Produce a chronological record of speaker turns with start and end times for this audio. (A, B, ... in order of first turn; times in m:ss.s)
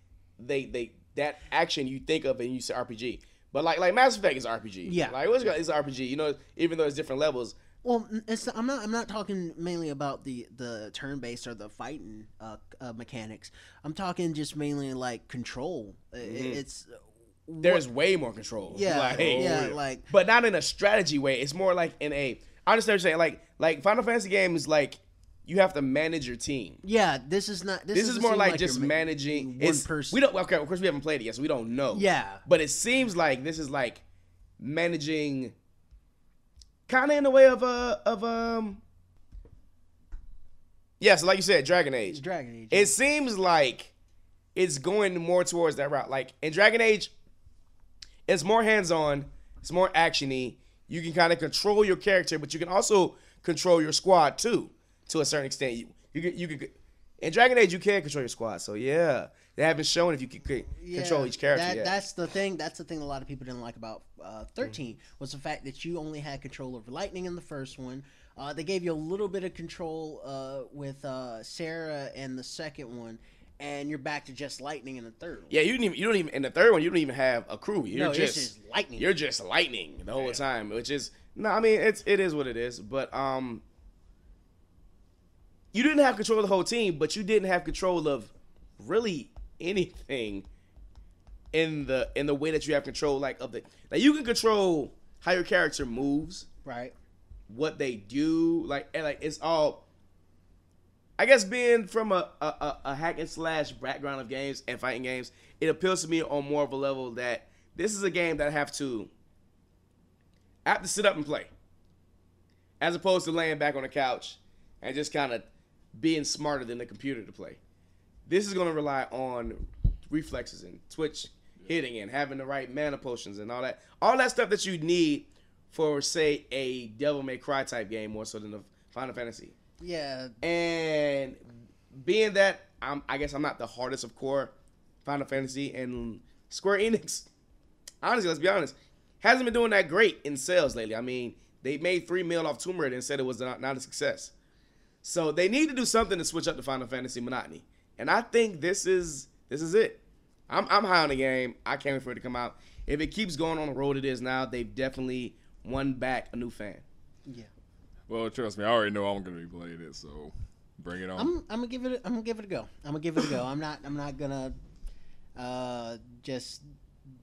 0:00.4-0:07.6 A
0:04.8-0:05.2 B
0:07.8-0:17.8 B
0:16.2-0:16.6 A
0:17.6-0:26.8 A
0:18.7-0:20.1 B
0:19.1-0:19.8 C
0:26.8-0:30.2 B
0:27.9-0:34.0 A
0:31.9-0:32.4 B
0:34.6-0:35.5 A
0:36.9-0:38.8 A
0:41.0-0:42.2 A
0:42.1-0:43.0 B
0:42.7-0:43.9 A
0:44.6-0:47.1 A
0:48.3-1:01.9 A
1:00.8-1:15.6 B
1:15.5-1:23.6 A
1:17.9-1:19.1 B
1:25.7-1:30.5 A
1:31.5-1:36.5 A
1:36.6-1:36.9 B
1:37.5-1:39.8 A
1:41.2-1:49.1 A
1:50.6-1:51.5 A
1:52.8-1:57.6 A
1:58.3-2:09.6 A
2:09.8-2:10.4 B
2:10.4-2:11.4 A
2:11.9-2:14.5 A
2:15.0-2:17.3 A
2:18.0-2:24.3 A
2:25.0-2:36.8 A
2:38.1-2:41.3 C
2:41.2-2:44.6 B
2:45.4-2:46.6 B